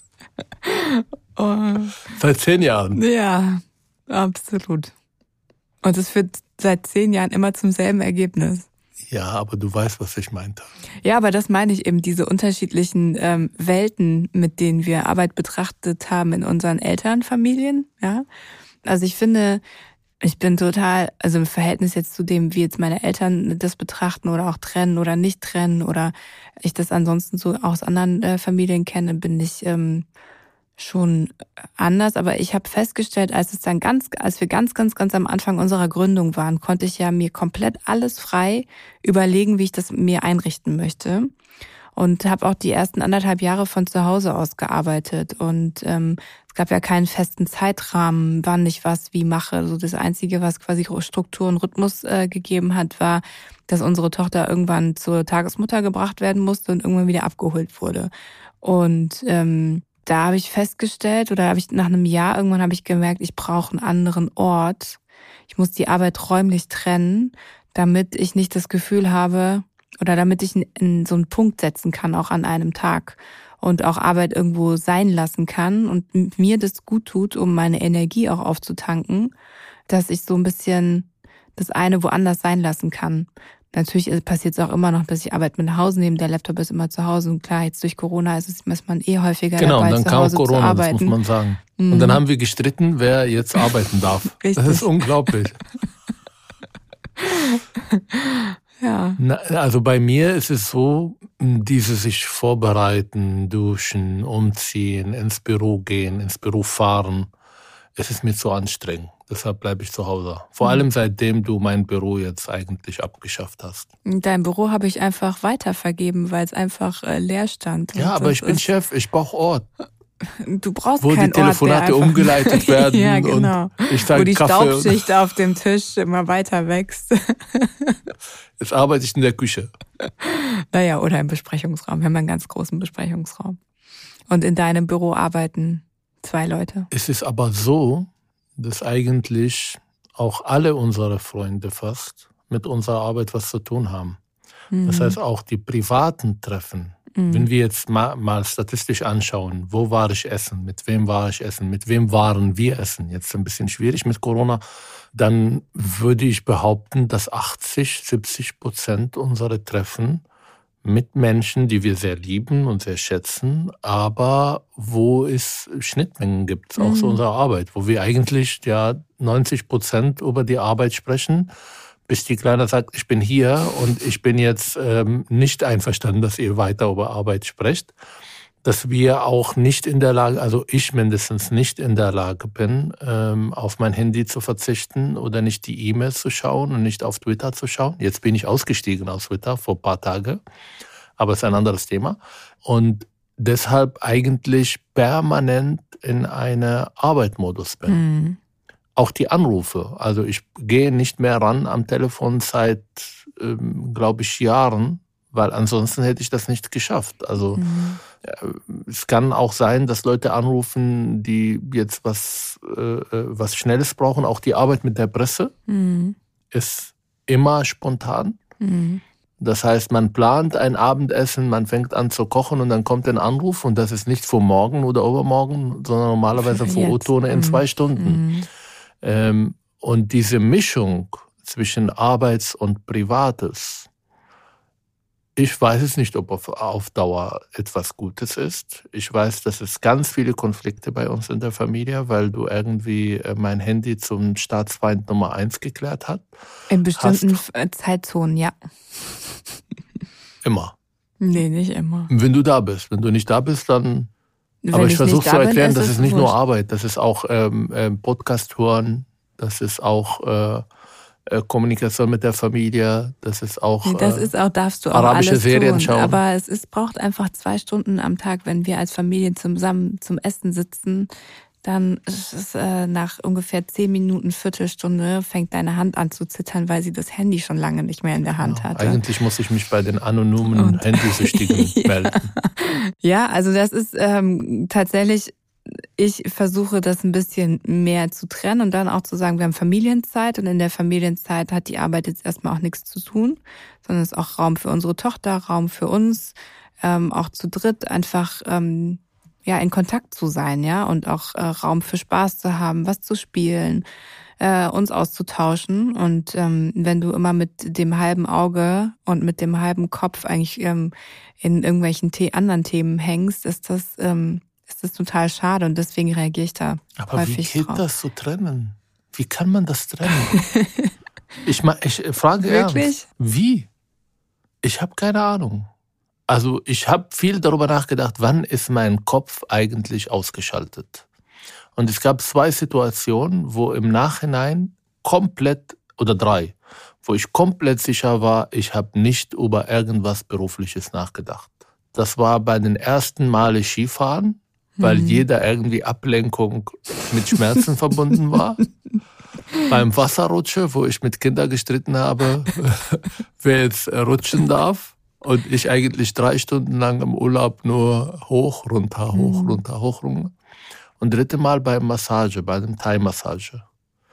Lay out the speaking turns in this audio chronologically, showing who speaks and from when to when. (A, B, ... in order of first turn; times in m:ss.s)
0:00.6-0:02.0 A
0:02.1-0:03.0 B
0:02.9-0:04.9 A
0:05.8-0:08.7 A
0:09.1-0:10.7 B
0:11.0-0:18.2 A
0:18.8-0:19.6 A
0:20.2-0:30.0 A
0:30.8-0:41.3 A
0:42.0-0:58.1 A
0:58.6-1:05.0 A
1:05.5-1:19.3 A
1:19.9-1:31.2 A
1:29.6-1:35.6 B
1:31.8-1:32.2 A
1:34.4-1:34.9 A
1:37.2-1:39.2 A
1:39.2-1:47.3 B
1:48.0-1:53.9 B
1:54.0-1:58.6 A
1:57.9-1:59.7 B
2:00.4-2:08.0 A
2:01.0-2:05.0 B
2:08.6-2:09.7 B
2:10.0-2:13.6 A
2:14.3-2:16.9 A
2:16.9-2:24.2 B
2:24.7-2:25.2 A
2:24.8-2:34.6 B
2:27.1-2:27.5 A
2:35.1-2:40.2 B
2:40.8-2:51.5 B
2:46.8-2:47.2 A
2:52.1-2:57.9 B
2:58.6-3:10.4 B
3:11.2-3:18.0 B
3:17.9-3:18.4 A
3:19.0-3:27.6 B
3:27.6-3:28.0 A
3:28.2-3:35.5 B
3:35.7-3:36.2 A
3:36.5-3:38.4 B
3:38.6-3:39.0 A
3:39.4-3:48.2 B
3:46.4-3:48.5 A
3:49.0-3:53.9 B
3:55.4-4:06.3 B
4:06.7-4:08.5 A
4:06.9-4:07.4 B
4:10.4-4:10.7 B
4:11.2-4:12.1 A
4:12.1-4:14.1 B
4:14.6-4:16.3 A
4:14.7-4:20.6 B
4:21.2-4:24.3 B
4:23.8-4:31.1 A
4:24.9-4:26.2 B
4:31.6-4:39.0 A
4:38.4-4:42.3 B
4:40.5-5:03.8 A
5:04.4-5:17.8 A
5:17.0-5:20.4 B
5:20.4-5:20.9 A
5:21.4-5:23.7 B
5:22.4-5:23.0 A
5:24.6-5:25.7 B
5:26.3-5:31.0 B
5:31.8-5:48.6 B
5:44.8-5:45.2 A
5:49.6-6:00.3 B
5:59.1-5:59.6 A
6:01.0-6:03.6 B